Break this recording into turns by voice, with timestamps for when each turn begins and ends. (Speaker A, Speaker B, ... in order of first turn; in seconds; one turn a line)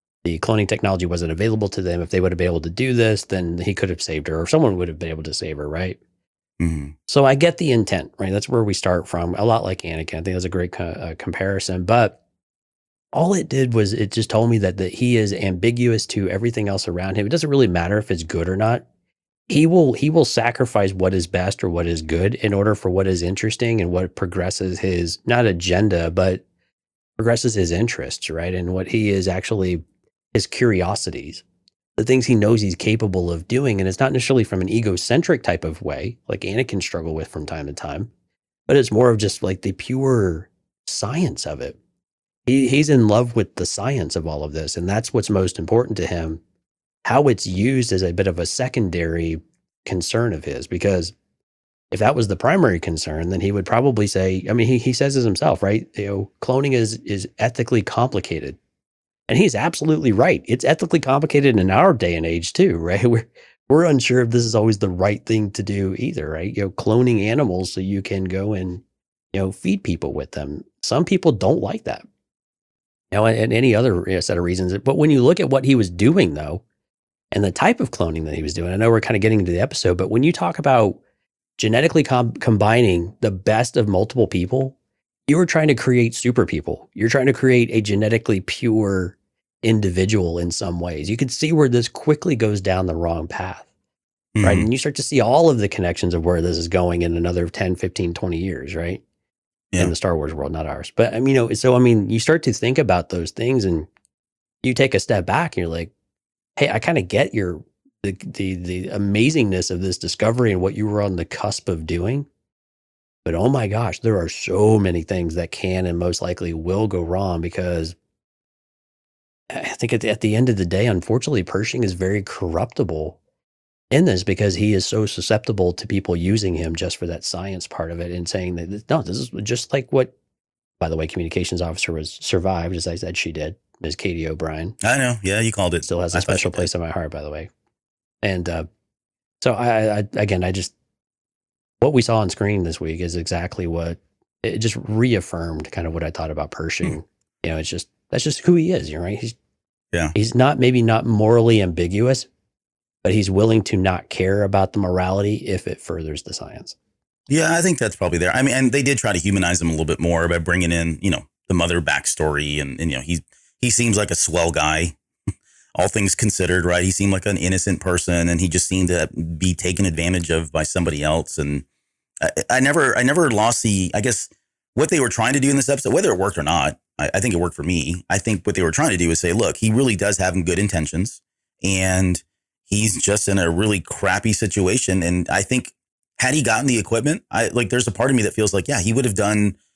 Speaker A: 0.2-6.0
Speaker B: 6.6-6.9
Speaker A: 7.1-12.2
Speaker A: 13.1-18.8
Speaker A: 19.5-26.4
Speaker A: 27.2-29.8
Speaker A: 30.3-31.4
Speaker A: 32.0-38.1
Speaker A: 38.7-41.8
Speaker A: 42.5-46.4
Speaker A: 47.0-51.1
Speaker A: 51.9-58.6
Speaker A: 59.3-68.8
Speaker A: 69.3-72.0
Speaker A: 73.1-76.6
Speaker A: 77.3-81.0
Speaker A: 81.6-84.7
Speaker A: 85.3-93.7
Speaker B: 94.3-94.7
Speaker A: 94.4-99.0
Speaker A: 99.8-103.9
Speaker A: 104.6-105.9
Speaker A: 106.6-112.3
Speaker A: 113.2-118.0
Speaker A: 119.5-123.2
Speaker A: 123.9-130.1
Speaker A: 130.8-134.8
Speaker B: 134.8-136.7
Speaker A: 135.8-137.5
Speaker A: 138.2-138.7
Speaker A: 139.4-140.7
Speaker A: 141.8-149.3
Speaker A: 150.1-152.3
Speaker A: 153.0-156.8
Speaker B: 157.3-164.9
Speaker B: 165.8-171.6
Speaker B: 172.2-189.6